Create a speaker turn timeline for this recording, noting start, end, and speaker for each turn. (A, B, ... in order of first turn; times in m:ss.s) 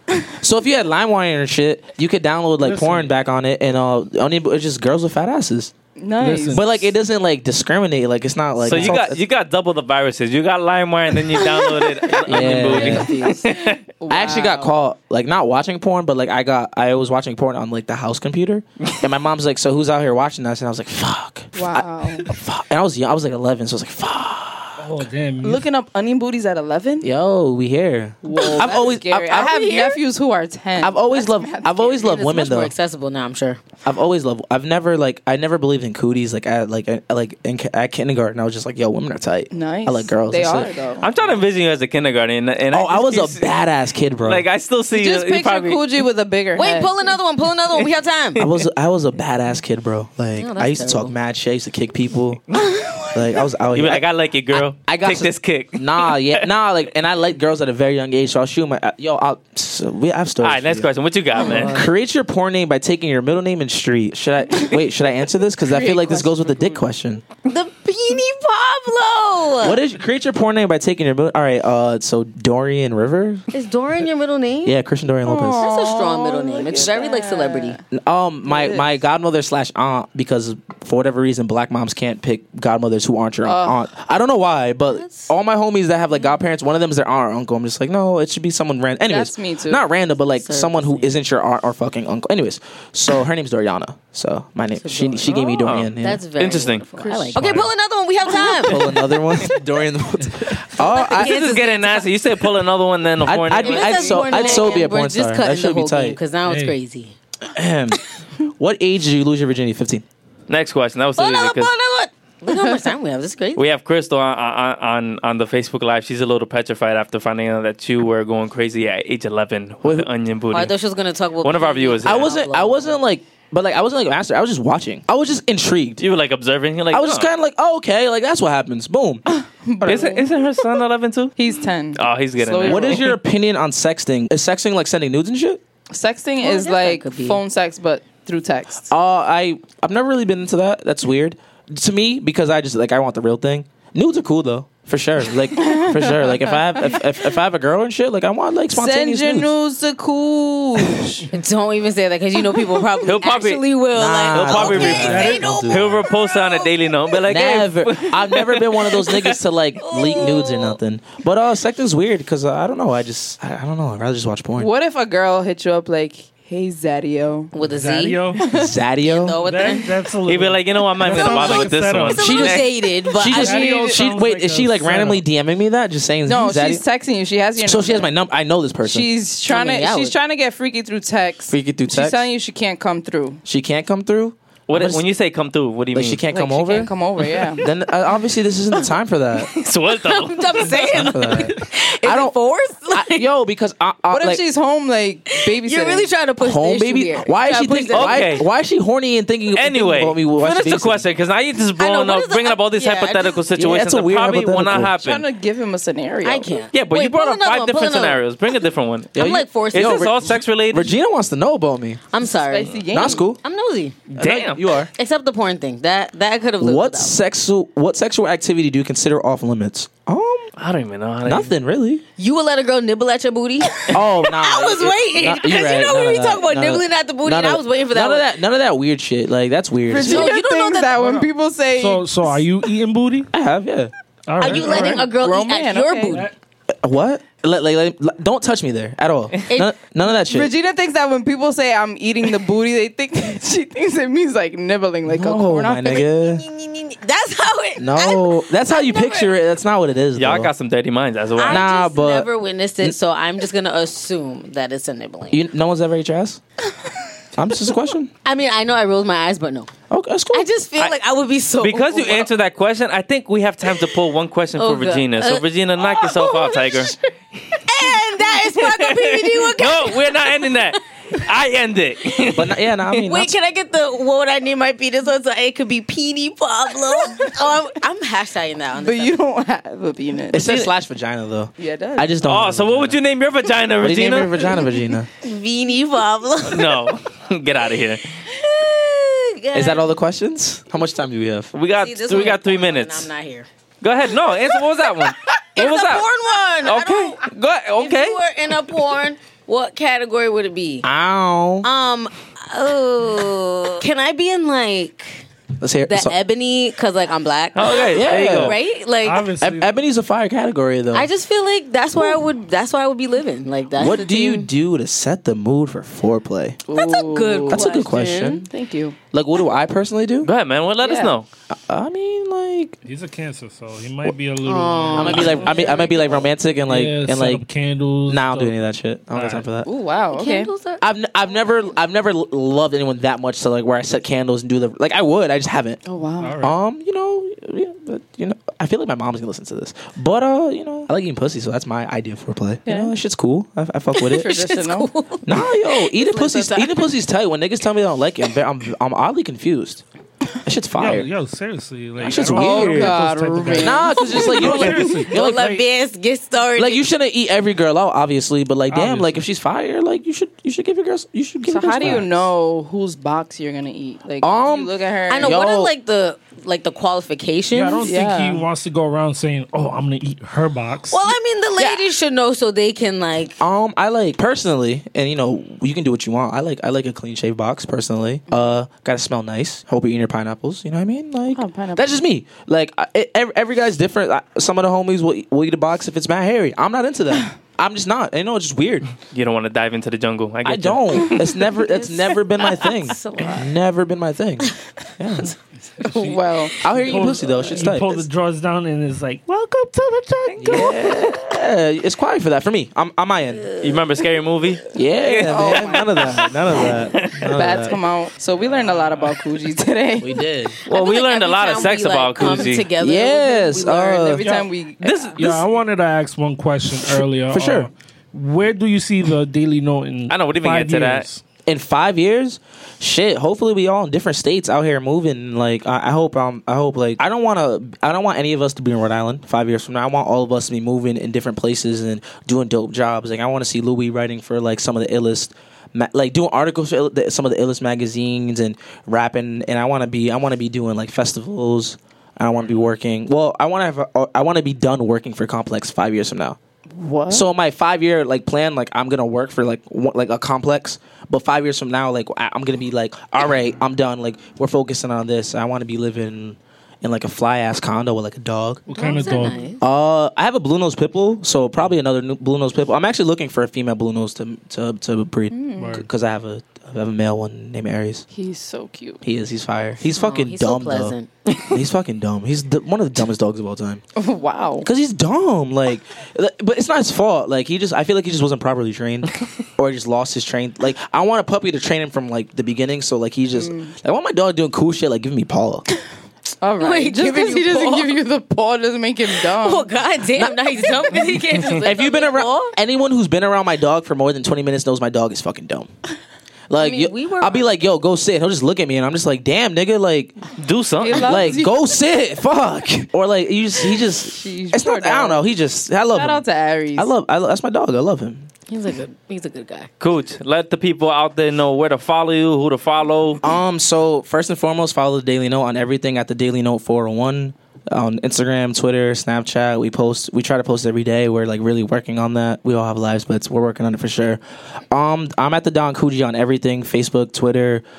0:00.4-0:05.7 A
0:02.6-0:03.1 B
0:06.0-0:06.6 C
0:06.2-0:06.8 B
0:06.5-0:09.2 A
0:08.6-0:13.8 D
0:11.6-0:14.7 C
0:12.2-0:13.2 A
0:14.1-0:24.8 A
0:21.6-0:22.3 C
0:24.8-0:25.7 B
0:25.4-0:27.1 C
0:27.0-0:30.0 A
0:28.2-0:32.1 C
0:28.3-0:28.7 E
0:30.8-0:32.7 A
0:32.0-0:33.6 E
0:33.8-0:40.7 A
0:39.5-0:41.1 C
0:41.0-0:43.6 D
0:42.7-0:44.4 A
0:44.2-0:46.0 D
0:44.9-0:47.2 C
0:46.6-0:48.4 E
0:48.4-0:52.4 A
0:50.4-0:51.1 E
0:52.6-0:53.1 E
0:53.1-1:00.9 A
0:53.7-0:56.5 D
1:00.4-1:01.8 D
1:01.4-1:01.9 E
1:01.6-1:07.2 A
1:05.6-1:06.8 C
1:07.4-1:09.8 E
1:09.6-1:13.4 A
1:13.5-1:14.8 E
1:14.6-1:15.7 A
1:15.2-1:17.8 C
1:15.5-1:17.8 E
1:17.9-1:36.2 A
1:18.5-1:18.9 C
1:23.4-1:23.8 C
1:24.9-1:25.3 E
1:29.1-1:29.8 C
1:30.4-1:31.2 E
1:34.8-1:38.8 E
1:35.6-1:36.9 D
1:37.0-1:37.6 C
1:37.0-1:37.7 B
1:38.6-1:41.4 A
1:40.8-1:42.1 E
1:41.1-1:44.5 D
1:43.3-1:46.2 A
1:43.5-1:47.1 E
1:44.3-1:44.7 C
1:46.4-1:46.8 B
1:47.4-1:50.0 A
1:50.5-1:51.7 D
1:51.2-1:53.6 E
1:53.6-2:00.7 D
1:59.8-2:00.1 A
2:00.5-2:03.0 E
2:01.4-2:02.3 D
2:02.0-2:06.0 A
2:06.0-2:07.3 D
2:06.9-2:09.2 A
2:09.3-2:10.3 C
2:09.8-2:11.4 D
2:11.4-2:13.1 C
2:12.0-2:13.1 D
2:12.6-2:15.6 A
2:15.9-2:18.9 C
2:16.4-2:17.4 E
2:18.9-2:29.5 A
2:25.6-2:27.0 C
2:28.7-2:31.4 C
2:31.3-2:36.7 E
2:32.5-2:32.9 C
2:33.0-2:33.7 D
2:33.9-2:36.0 A
2:34.3-2:39.4 D
2:34.9-2:35.7 B
2:37.3-2:44.7 A
2:39.8-2:40.8 E
2:44.6-2:47.5 C
2:47.5-2:48.4 E
2:47.6-2:48.6 B
2:48.4-2:48.7 C
2:48.5-2:49.4 A
2:49.0-2:50.0 E
2:49.3-2:52.4 B
2:50.3-2:52.7 D
2:51.1-2:53.9 E
2:52.2-2:56.8 A
2:53.3-2:55.2 B
2:53.5-2:54.2 C
2:56.3-2:58.1 C
2:57.6-2:59.1 A
2:58.8-3:03.4 C
2:59.5-3:00.2 E
3:01.5-3:02.3 A
3:03.4-3:05.1 A
3:04.7-3:06.2 D
3:05.9-3:06.9 A
3:06.3-3:07.7 C
3:07.6-3:09.5 A
3:09.6-3:11.4 D
3:09.9-3:13.3 E
3:10.9-3:12.4 A
3:12.9-3:14.4 A
3:14.1-3:16.1 C
3:15.3-3:18.4 E
3:16.4-3:21.0 A
3:17.9-3:18.4 D
3:19.5-3:25.3 D
3:21.8-3:23.4 E
3:23.6-3:25.0 A
3:25.0-3:26.7 C
3:26.2-3:28.2 E
3:26.7-3:29.2 D
3:29.1-3:32.0 A
3:29.2-3:30.1 E
3:29.7-3:31.0 D
3:32.1-3:34.0 E
3:32.4-3:33.2 C
3:32.9-3:33.4 A
3:34.1-3:34.6 D
3:34.2-3:34.9 A
3:35.0-3:37.2 E
3:36.6-3:40.5 A
3:40.6-3:41.5 D
3:41.2-3:42.0 A
3:42.2-3:48.3 E
3:43.9-3:50.3 A
3:49.9-3:52.4 C
3:49.9-3:51.2 E
3:51.0-3:53.3 B
3:53.3-3:53.9 A
3:54.3-3:55.1 B
3:54.4-3:56.3 E
3:54.4-3:56.3 C
3:56.8-4:00.5 A
4:00.2-4:06.1 C
4:05.0-4:06.4 A
4:06.0-4:09.4 E
4:07.8-4:10.5 A
4:10.2-4:11.7 D
4:11.4-4:15.4 E
4:11.5-4:12.3 A
4:15.3-4:16.4 A
4:17.4-4:18.1 A
4:18.2-4:19.7 E
4:19.9-4:20.5 A
4:20.3-4:22.3 E
4:21.6-4:26.9 D
4:24.6-4:27.0 E
4:27.5-4:30.8 E
4:28.2-4:32.7 D
4:32.3-4:33.3 A
4:32.9-4:39.2 E
4:38.8-4:40.5 C
4:40.3-4:43.0 A
4:40.4-4:40.7 D
4:41.6-4:42.2 C
4:42.2-4:44.4 D
4:43.8-4:45.1 A
4:45.2-4:47.0 E
4:46.4-4:48.0 D
4:48.3-4:49.8 E
4:49.5-4:51.5 A
4:51.5-4:53.1 D
4:51.8-4:53.5 E
4:53.8-4:56.1 D
4:55.6-4:57.2 E
4:56.6-4:58.2 D
4:57.8-5:00.9 E
5:00.8-5:01.7 A
5:01.6-5:05.2 E
5:05.6-5:06.2 A
5:05.8-5:09.4 E
5:07.6-5:08.6 D
5:07.9-5:08.6 A
5:09.0-5:09.7 B
5:09.4-5:11.1 A
5:10.9-5:14.5 E
5:13.7-5:16.6 A
5:16.7-5:19.0 C
5:16.7-5:18.4 E
5:17.5-5:18.4 A
5:19.1-5:20.3 A
5:20.2-5:21.3 D
5:20.8-5:21.1 C
5:21.5-5:22.8 A
5:22.8-5:25.8 B
5:24.4-5:25.9 E
5:24.9-5:27.5 A
5:25.5-5:25.9 C
5:26.7-5:28.6 B
5:28.1-5:29.7 A
5:29.1-5:29.5 B
5:29.6-5:30.5 C
5:30.1-5:30.8 E
5:30.8-5:35.8 A
5:35.8-5:36.4 C
5:36.2-5:36.6 B
5:36.4-5:44.4 A
5:42.7-5:42.9 C
5:44.0-5:46.7 E
5:44.0-5:45.4 C
5:45.2-5:49.8 A
5:46.0-5:46.3 C
5:50.4-5:51.1 A
5:50.8-5:55.6 B
5:52.0-5:53.0 A
5:52.2-5:55.0 C
5:53.6-5:55.6 A
5:54.0-5:56.8 E
5:56.6-6:02.3 A
5:58.7-5:59.2 B
6:01.5-6:05.4 C
6:04.2-6:05.7 A
6:05.1-6:07.9 E
6:07.5-6:11.1 B
6:07.8-6:08.5 C
6:10.9-6:13.4 E
6:13.4-6:28.9 A
6:21.4-6:21.9 C
6:29.1-6:31.4 D
6:30.4-6:35.4 A
6:31.5-6:33.5 E
6:35.8-6:36.5 E
6:35.8-6:40.9 B
6:36.0-6:36.6 C
6:36.6-6:38.1 A
6:40.4-6:40.8 D
6:40.4-6:43.5 A
6:43.5-6:43.8 E
6:43.6-6:47.3 D
6:44.7-6:47.8 A
6:45.3-6:46.2 C
6:47.3-6:50.2 C
6:50.0-6:50.6 A
6:50.6-6:54.1 E
6:50.7-6:52.7 D
6:52.8-6:54.3 A
6:53.7-6:55.2 C
6:54.2-6:54.5 B
6:54.8-6:55.4 A
6:54.8-6:55.2 D
6:55.2-7:01.2 B
6:57.0-6:57.7 A
7:00.1-7:01.1 D
7:01.5-7:26.4 A
7:26.8-7:27.3 C
7:27.1-7:38.6 A
7:38.7-7:39.4 B
7:38.7-7:39.6 E
7:39.6-7:48.0 A
7:45.3-7:45.8 C
7:45.6-7:45.9 B
7:48.1-7:49.0 C
7:49.0-7:51.0 A
7:49.8-7:51.6 E
7:51.5-7:53.8 A
7:54.0-7:54.7 C
7:54.6-8:05.7 A
8:03.4-8:03.7 C
8:06.4-8:09.7 C
8:06.6-8:08.0 E
8:09.1-8:12.6 E
8:10.2-8:11.4 C
8:11.6-8:15.7 A
8:16.5-8:20.2 A
8:16.6-8:17.5 E
8:20.4-8:21.4 D
8:20.8-8:21.6 C
8:21.0-8:26.2 A
8:24.0-8:25.2 C
8:25.9-8:26.9 C
8:26.8-8:28.3 A
8:28.5-8:29.7 E
8:29.8-8:33.2 D
8:33.2-8:47.6 A